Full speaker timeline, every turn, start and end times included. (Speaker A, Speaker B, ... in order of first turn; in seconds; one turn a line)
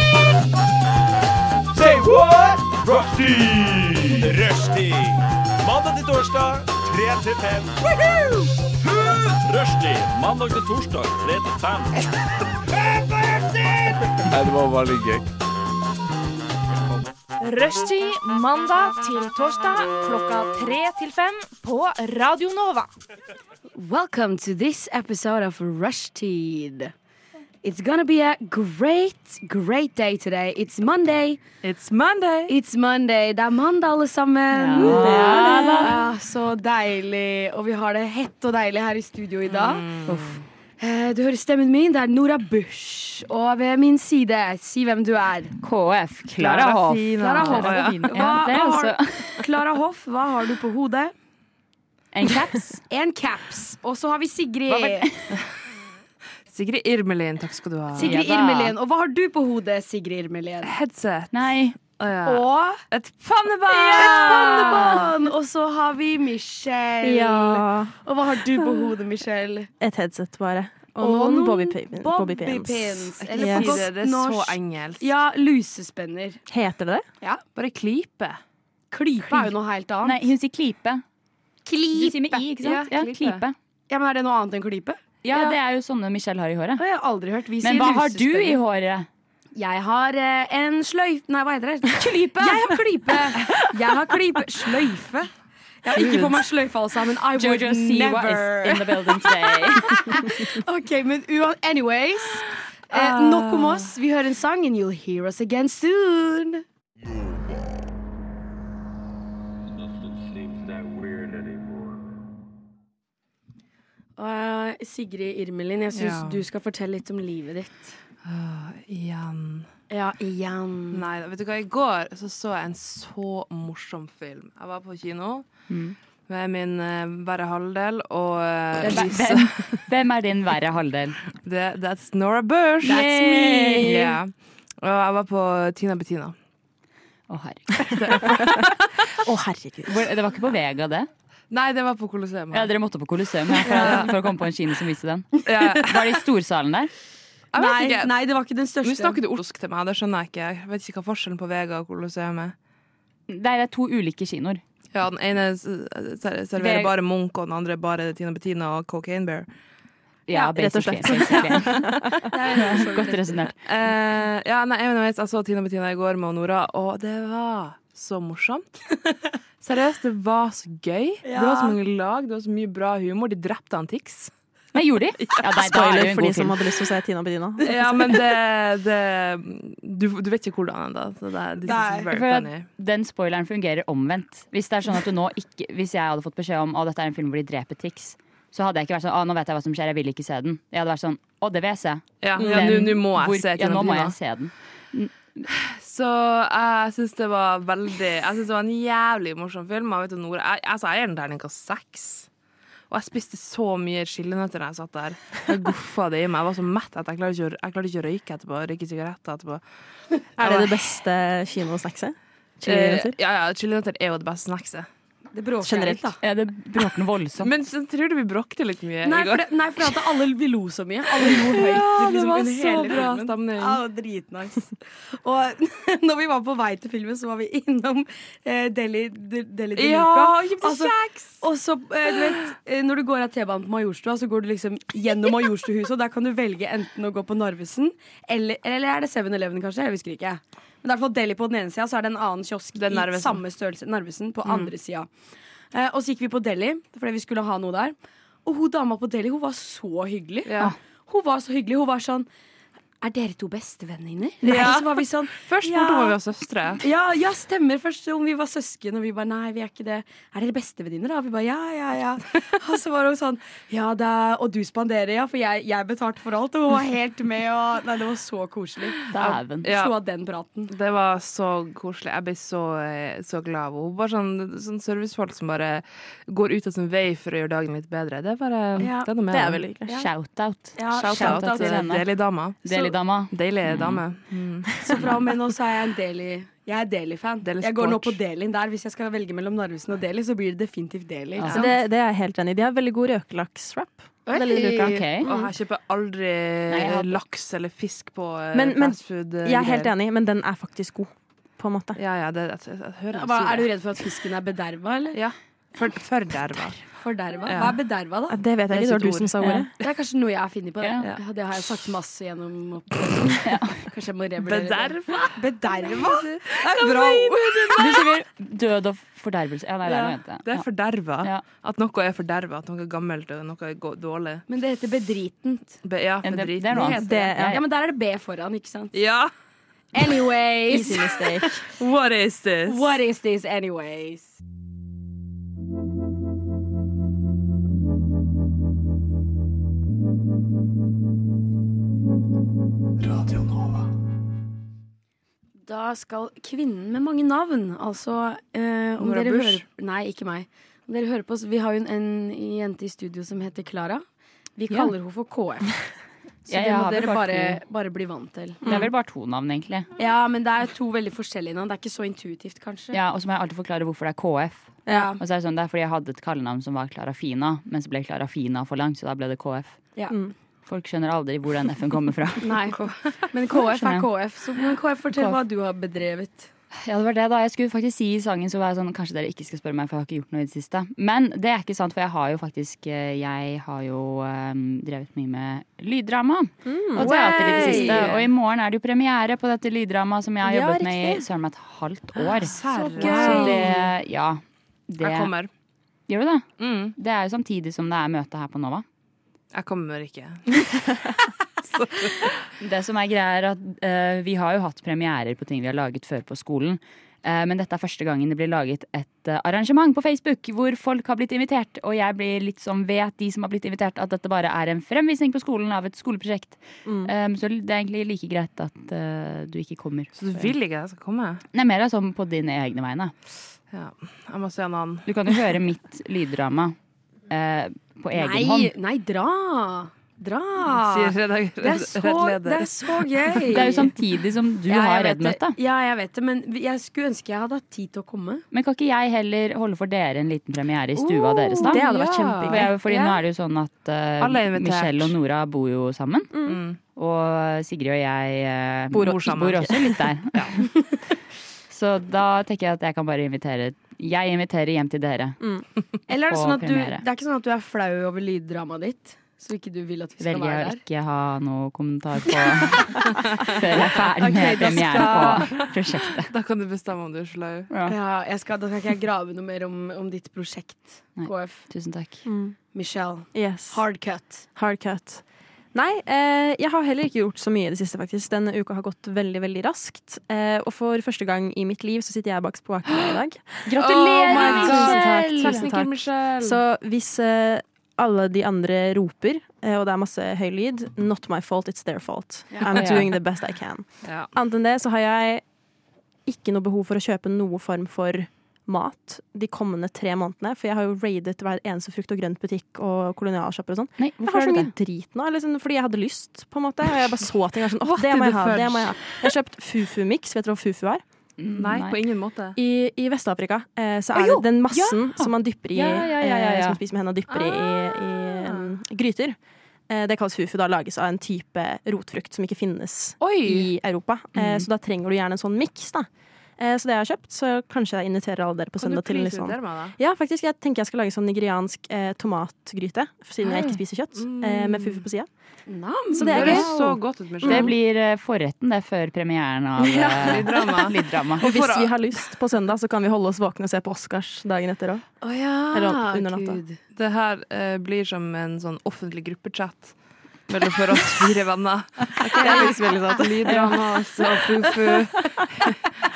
Speaker A: 1.7-7.8
Speaker A: 8.4-11.9
Speaker A: 13.2-15.2
Speaker B: 17.4-22.9
Speaker C: 23.8-26.9
Speaker C: 27.6-31.4
Speaker D: 31.6-32.5
Speaker C: 32.5-39.8
Speaker E: 34.5-36.0
Speaker F: 34.8-36.0
Speaker D: 39.5-40.4
Speaker E: 40.0-40.4
Speaker C: 40.8-45.5
Speaker E: 45.6-49.4
Speaker D: 46.4-48.2
Speaker C: 47.2-51.1
Speaker E: 52.1-52.8
Speaker C: 52.9-55.1
Speaker E: 54.7-55.3
Speaker D: 56.5-58.2
Speaker C: 58.0-60.7
Speaker E: 58.0-58.7
Speaker D: 60.6-65.1
Speaker E: 61.3-61.8
Speaker C: 62.2-62.8
Speaker C: 63.7-69.7
Speaker F: 67.0-67.9
Speaker F: 69.8-73.8
Speaker C: 71.0-76.4
Speaker D: 73.2-75.1
Speaker F: 76.5-77.0
Speaker D: 77.5-78.4
Speaker C: 78.9-80.2
Speaker E: 80.0-81.0
Speaker C: 81.7-82.5
Speaker E: 81.9-83.6
Speaker D: 82.6-83.4
Speaker C: 83.9-85.6
Speaker E: 85.2-86.8
Speaker C: 86.8-88.6
Speaker E: 87.6-89.1
Speaker C: 89.5-95.3
Speaker E: 91.9-92.8
Speaker C: 95.8-106.6
Speaker E: 96.0-96.3
Speaker E: 97.4-100.2
Speaker D: 102.9-103.9
Speaker C: 114.2-117.9
Speaker D: 115.9-116.4
Speaker D: 118.2-119.7
Speaker C: 119.9-121.1
Speaker D: 120.9-125.5
Speaker E: 125.7-126.0
Speaker D: 126.3-129.8
Speaker E: 128.8-131.2
Speaker D: 131.4-136.3
Speaker C: 132.8-134.2
Speaker F: 133.2-133.8
Speaker E: 137.3-138.2
Speaker D: 137.8-138.9
Speaker F: 138.2-138.6
Speaker F: 139.2-140.1
Speaker E: 139.9-141.1
Speaker D: 141.5-142.7
Speaker E: 142.5-146.9
Speaker D: 143.6-144.1
Speaker C: 143.7-144.1
Speaker D: 145.5-146.2
Speaker D: 147.5-148.1
Speaker C: 147.6-149.2
Speaker D: 148.8-152.5
Speaker E: 153.3-154.6
Speaker D: 154.9-159.5
Speaker E: 156.6-156.9
Speaker E: 160.3-163.6
Speaker F: 160.5-162.3
Speaker C: 161.1-161.4
Speaker C: 162.2-163.5
Speaker D: 163.7-168.8
Speaker D: 169.6-174.3
Speaker C: 171.2-171.8
Speaker E: 174.7-176.6
Speaker F: 175.5-178.0
Speaker D: 177.6-182.7
Speaker C: 181.6-182.1
Speaker E: 182.1-195.5
Speaker D: 192.2-194.2
Speaker F: 192.3-192.8
Speaker D: 195.6-202.3
Speaker D: 202.9-209.6
Speaker F: 210.4-213.2
Speaker D: 210.4-210.8
Speaker D: 212.6-214.9
Speaker C: 215.3-216.2
Speaker F: 215.6-216.1
Speaker E: 216.2-217.5
Speaker D: 217.4-220.1
Speaker C: 219.0-245.1
Speaker D: 221.2-223.8
Speaker D: 229.8-231.4
Speaker D: 242.8-243.4
Speaker C: 245.7-250.5
Speaker D: 250.4-250.7
Speaker C: 251.1-252.3
Speaker C: 253.0-256.2
Speaker D: 254.4-256.8
Speaker C: 256.8-269.1
Speaker E: 269.1-269.7
Speaker D: 269.1-269.9
Speaker C: 269.6-270.7
Speaker D: 270.7-279.6
Speaker C: 278.8-279.1
Speaker F: 279.3-280.0
Speaker E: 279.9-284.0
Speaker C: 280.8-281.8
Speaker D: 280.9-285.2
Speaker C: 284.9-291.7
Speaker D: 287.4-288.2
Speaker E: 291.4-291.6
Speaker F: 291.5-295.5
Speaker C: 294.2-295.2
Speaker E: 294.7-295.3
Speaker D: 295.2-299.9
Speaker E: 296.7-297.2
Speaker F: 298.5-302.0
Speaker D: 301.9-303.7
Speaker C: 303.1-305.2
Speaker D: 305.1-306.8
Speaker C: 306.9-308.4
Speaker D: 307.4-307.8
Speaker F: 308.3-309.7
Speaker D: 308.7-309.4
Speaker E: 309.4-309.7
Speaker C: 309.8-318.0
Speaker E: 313.4-313.8
Speaker D: 314.4-318.1
Speaker E: 317.8-320.7
Speaker D: 319.9-324.4
Speaker C: 324.5-325.8
Speaker D: 325.8-327.3
Speaker E: 326.2-327.6
Speaker F: 326.8-327.6
Speaker C: 326.9-328.9
Speaker D: 328.9-329.3
Speaker C: 329.9-331.6
Speaker F: 330.7-331.5
Speaker D: 331.6-332.9
Speaker C: 332.6-334.3
Speaker A: 343.1-343.7
Speaker C: 345.6-354.0
Speaker D: 349.0-349.6
Speaker C: 354.6-355.7
Speaker C: 356.4-358.6
Speaker E: 356.5-357.6
Speaker F: 358.6-358.9
Speaker E: 358.6-359.9
Speaker C: 360.0-363.0
Speaker E: 362.9-369.8
Speaker C: 364.9-365.2
Speaker E: 370.7-372.5
Speaker C: 372.4-376.5
Speaker D: 372.7-373.0
Speaker E: 373.5-374.1
Speaker E: 376.8-395.3
Speaker F: 386.6-387.1
Speaker C: 387.0-388.1
Speaker D: 387.1-388.3
Speaker F: 390.4-391.2
Speaker D: 392.4-393.9
Speaker C: 392.6-393.9
Speaker D: 395.0-395.5
Speaker E: 396.1-398.8
Speaker D: 396.6-396.9
Speaker D: 399.5-402.3
Speaker E: 402.6-420.5
Speaker F: 416.8-417.1
Speaker D: 420.1-421.4
Speaker E: 421.5-423.1
Speaker D: 423.7-425.4
Speaker E: 425.1-426.8
Speaker E: 427.3-428.7
Speaker C: 428.1-433.9
Speaker D: 430.7-433.8
Speaker E: 433.5-435.6
Speaker C: 434.7-438.4
Speaker E: 438.5-441.8
Speaker C: 440.9-443.2
Speaker F: 441.6-442.7
Speaker D: 441.8-442.1
Speaker E: 442.5-446.4
Speaker D: 444.2-445.1
Speaker F: 446.3-446.6
Speaker D: 446.4-446.8
Speaker E: 446.9-450.7
Speaker F: 448.9-449.9
Speaker D: 449.0-449.8
Speaker D: 450.3-450.6
Speaker E: 451.7-455.4
Speaker C: 456.1-460.8
Speaker E: 456.3-457.0
Speaker E: 460.2-466.3
Speaker D: 463.3-467.7
Speaker C: 464.2-465.6
Speaker E: 467.7-467.9
Speaker C: 467.8-471.6
Speaker E: 471.2-472.2
Speaker F: 472.2-472.6
Speaker C: 472.7-474.4
Speaker F: 473.3-473.8
Speaker F: 474.5-475.2
Speaker F: 475.7-495.4
Speaker D: 483.7-486.6
Speaker C: 483.7-485.7
Speaker E: 492.7-493.1
Speaker F: 496.2-511.0
Speaker E: 504.0-504.7
Speaker D: 507.8-509.2
Speaker E: 511.4-512.0
Speaker D: 511.5-512.6
Speaker F: 512.5-519.4
Speaker E: 514.1-516.8
Speaker F: 519.9-535.3
Speaker D: 523.2-523.7
Speaker E: 524.4-524.6
Speaker D: 528.8-530.0
Speaker E: 533.4-533.8
Speaker D: 534.1-535.0
Speaker C: 535.7-536.6
Speaker F: 536.1-536.7
Speaker D: 536.2-537.8
Speaker E: 536.3-541.4
Speaker F: 537.4-537.7
Speaker F: 539.8-540.6
Speaker D: 540.2-542.0
Speaker F: 541.4-545.1
Speaker C: 545.2-546.8
Speaker F: 545.7-546.6
Speaker D: 546.9-550.0
Speaker D: 550.5-555.8
Speaker F: 552.2-553.7
Speaker C: 552.4-552.7
Speaker C: 553.4-554.6